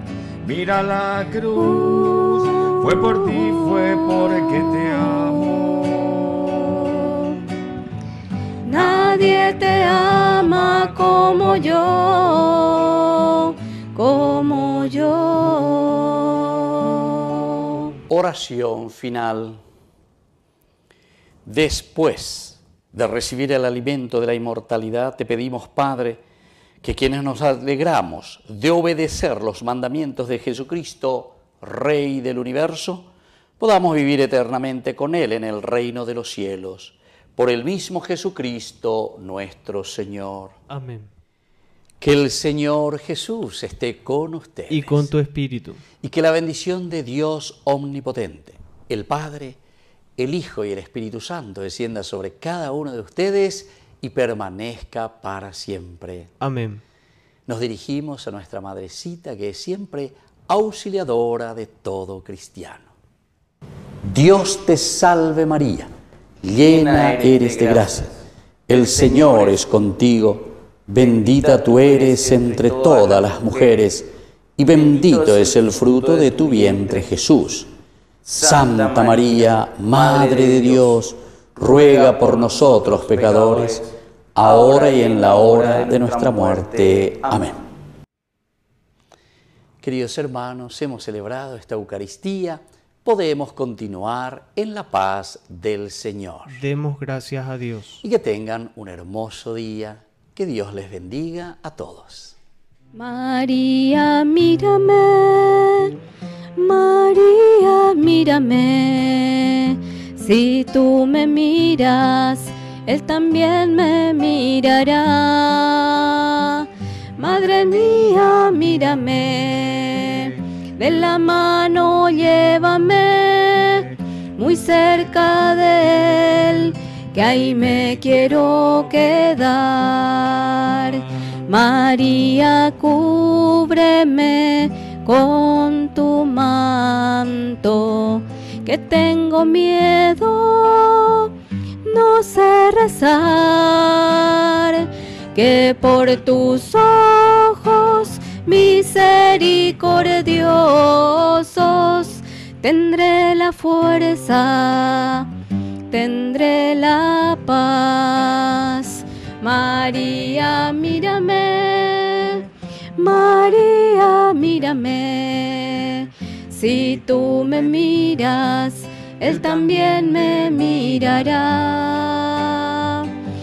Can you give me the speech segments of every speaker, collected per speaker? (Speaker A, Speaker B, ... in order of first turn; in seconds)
Speaker A: 0.4-7.3, 8.8-9.5, 10.6-11.5, 169.3-171.2
Speaker B: 1.7-4.1, 8.7-17.9, 102.9-106.0, 106.6-141.3, 141.8-155.3, 155.9-162.4, 163.0-173.1
Speaker C: 18.1-19.6, 21.4-26.2, 26.8-40.6, 42.0-45.1, 46.0-49.6, 50.2-56.3, 57.5-62.9, 64.0-65.9, 66.4-68.2, 68.7-77.7, 78.2-87.6, 89.8-96.6, 98.0-102.4
Speaker D: 40.7-41.1, 44.7-45.8, 56.4-56.8, 96.5-98.0